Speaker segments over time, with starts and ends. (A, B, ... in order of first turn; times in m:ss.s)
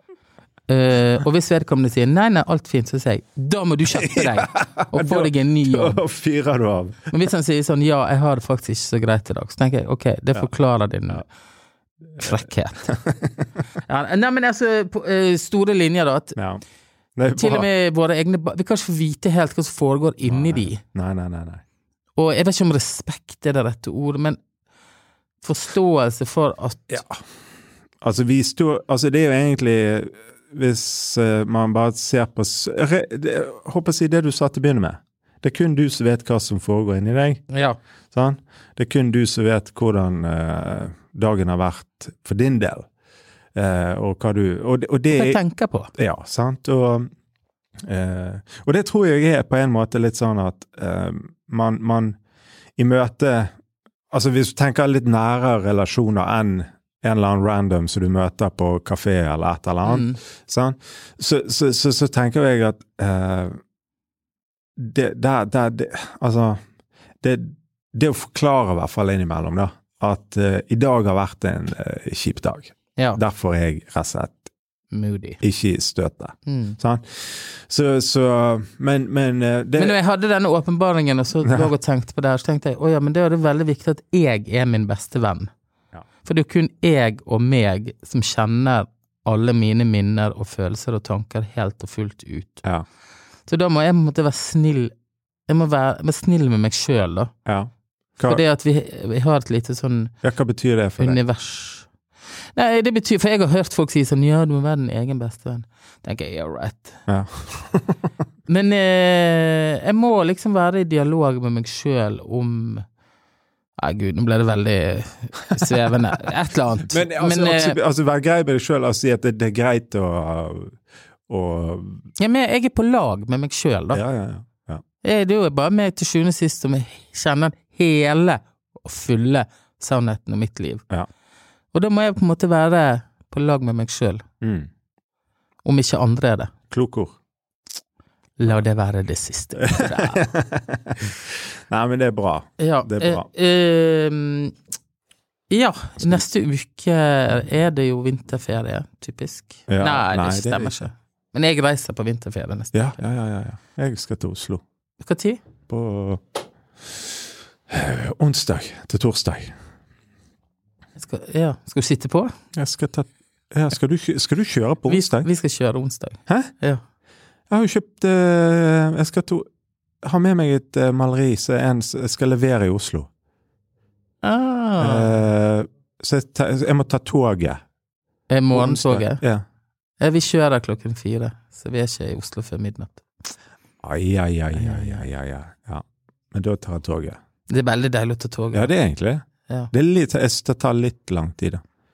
0:00.7-0:06.0 A
0:03.9-0:07.1 B
0:07.1-0:11.2 A
0:12.2-0:12.9 A
0:12.9-0:13.3 B
0:13.9-0:16.4 A
0:16.4-0:16.6 B
0:17.2-0:17.7 B
0:17.3-0:20.8 A
0:20.3-0:21.6 B
0:22.2-0:24.4 A
0:25.4-0:27.0 A
0:26.9-0:27.2 B
0:28.0-0:37.4 B
0:37.5-0:37.8 A
0:38.1-0:42.9 B
0:43.6-0:45.4 B
0:45.1-0:45.9 A
0:46.0-0:47.1 B
0:47.8-0:52.2 B
0:52.8-0:53.5 B
0:54.1-1:03.6 B
0:59.8-1:00.2 A
1:04.8-1:06.6 B
1:07.2-1:14.5 B
1:14.9-1:15.4 A
1:15.4-1:20.0 B
1:16.5-1:16.8 A
1:19.8-1:25.5 A
1:21.4-1:21.7 B
1:26.2-1:32.6 A
1:33.5-1:34.9 A
1:35.5-1:37.3 A
1:37.5-1:38.4 B
1:38.2-1:40.1 A
1:40.2-1:41.2 B
1:41.0-1:41.9 A
1:42.6-1:47.0 A
1:47.1-1:48.0 B
1:48.5-1:52.8 A
1:53.8-1:57.8 A
1:56.9-2:00.8 B
2:01.3-2:02.1 B
2:02.2-2:04.0 A
2:03.9-2:04.8 B
2:05.0-2:10.8 A
2:11.7-2:14.2 A
2:14.4-2:14.7 B
2:15.6-2:16.5 A
2:16.7-2:17.2 B
2:18.4-2:20.3 A
2:19.6-2:23.3 B
2:22.6-2:24.6 A
2:25.5-2:32.8 A
2:29.7-2:30.9 B
2:32.7-2:34.6 B
2:35.0-2:35.4 A
2:35.7-2:36.2 B
2:37.7-2:39.5 B
2:41.0-2:42.3 A
2:42.6-2:45.3 B
2:44.9-2:46.8 A
2:47.5-2:49.5 B
2:50.0-2:53.1 B
2:54.2-2:55.1 A
2:54.8-2:57.6 B
2:58.3-2:59.2 A
2:58.5-2:59.4 B
3:00.0-3:03.0 A
3:03.8-3:07.2 B
3:04.6-3:05.0 A
3:07.5-3:08.7 A
3:08.5-3:11.6 B